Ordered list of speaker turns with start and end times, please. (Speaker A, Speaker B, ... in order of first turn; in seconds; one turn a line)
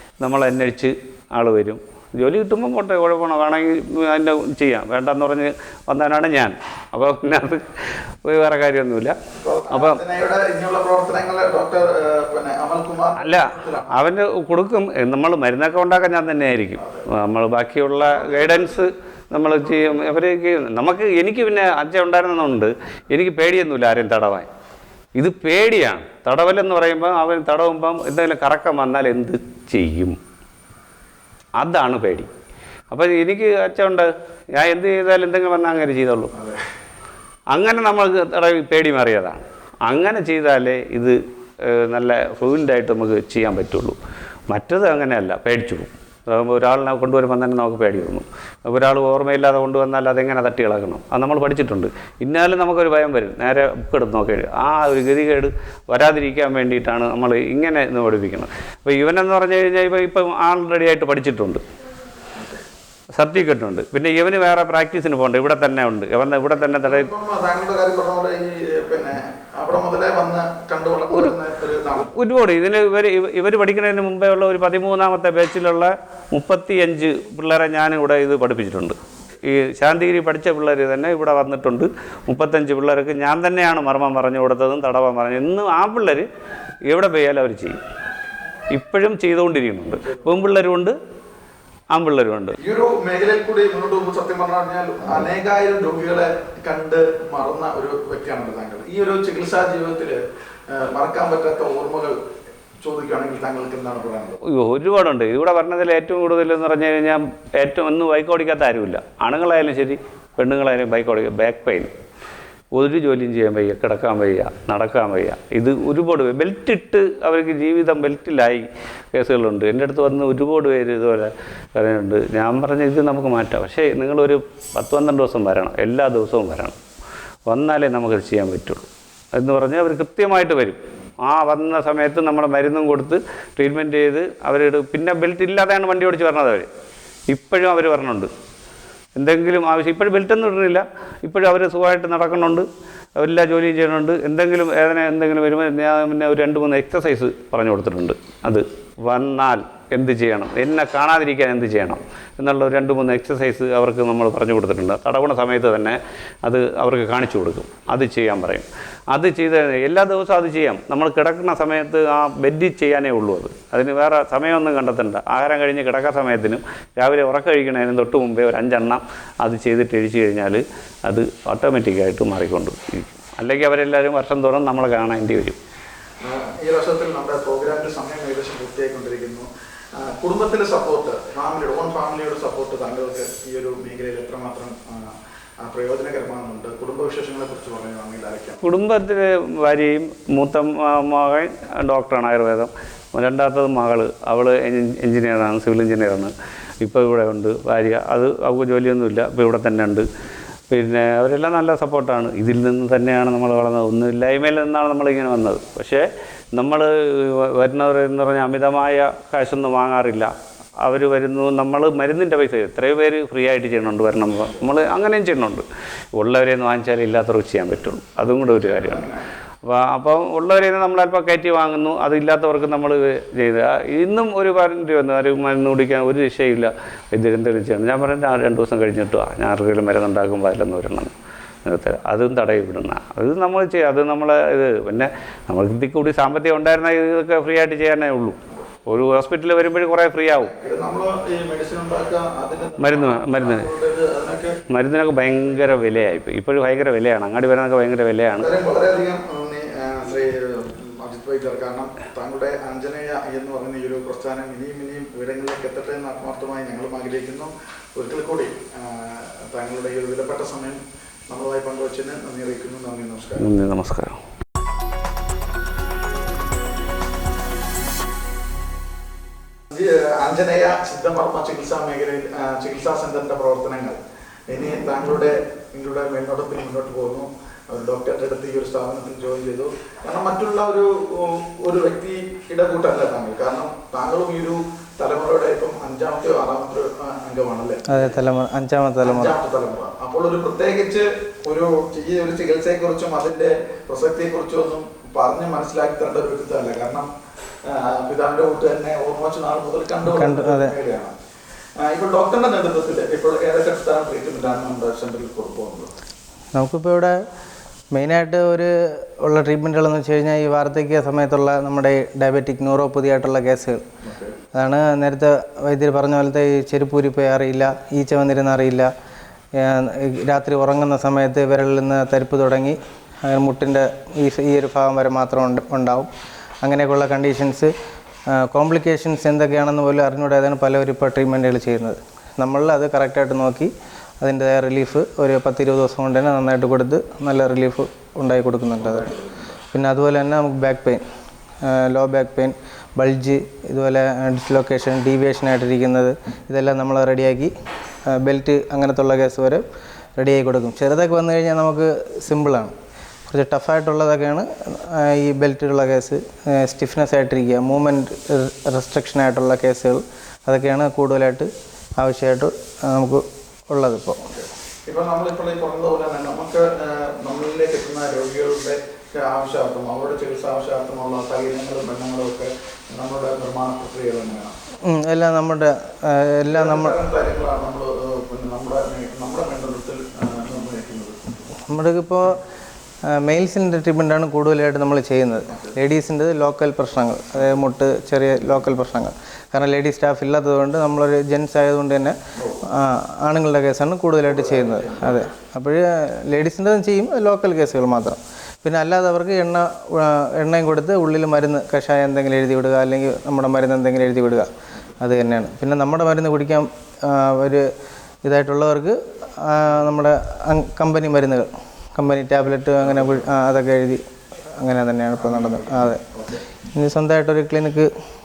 Speaker A: 0.2-9.2
Speaker B: 9.3-14.0
Speaker A: 9.7-10.0
Speaker A: 13.2-24.5
Speaker B: 16.8-17.1
Speaker B: 18.0-18.8
Speaker A: 25.2-30.2
Speaker A: 31.6-32.3
Speaker A: 32.9-36.3
Speaker B: 36.3-36.6
Speaker A: 37.5-44.0
Speaker A: 44.5-61.6
Speaker A: 63.1-67.1
Speaker B: 66.7-72.1
Speaker A: 72.1-86.3
Speaker A: 86.9-87.8
Speaker A: 88.7-91.0
Speaker A: 91.9-92.6
Speaker B: 92.6-102.2
Speaker B: 102.8-104.4
Speaker A: 104.4-111.9
Speaker A: 112.8-126.8
Speaker A: 127.5-136.7
Speaker A: 137.3-138.3
Speaker A: 139.2-175.6
Speaker B: 176.2-188.6
Speaker A: 188.6-200.1
Speaker A: 200.7-210.3
Speaker A: 210.8-219.1
Speaker B: 218.5-219.2
Speaker A: 219.6-231.1
Speaker A: 231.7-240.5
Speaker B: 240.3-244.7
Speaker A: 242.8-243.7
Speaker A: 244.7-248.5
Speaker B: 248.4-263.5
Speaker A: 263.4-264.2
Speaker B: 269.7-288.2
Speaker C: 287.9-289.4
Speaker B: 289.0-297.1
Speaker B: 297.6-301.1
Speaker C: 300.1-300.7
Speaker B: 301.8-305.9
Speaker C: 306.6-307.2
Speaker C: 307.9-313.9
Speaker B: 314.0-314.4
Speaker C: 314.5-318.9
Speaker C: 319.5-326.1
Speaker C: 326.6-327.7
Speaker C: 328.3-339.1
Speaker B: 338.8-339.6
Speaker C: 339.7-341.0
Speaker C: 341.6-347.5
Speaker C: 348.1-349.6
Speaker C: 350.2-352.7
Speaker C: 353.3-364.3
Speaker B: 364.3-374.5
Speaker C: 374.9-377.0
Speaker B: 376.4-381.4
Speaker C: 381.7-382.4
Speaker C: 383.1-404.5
Speaker B: 392.4-392.6
Speaker B: 394.2-395.3
Speaker C: 405.0-407.7
Speaker C: 408.2-414.0
Speaker B: 412.8-413.3
Speaker C: 414.6-416.0
Speaker B: 415.2-416.4
Speaker C: 416.7-417.9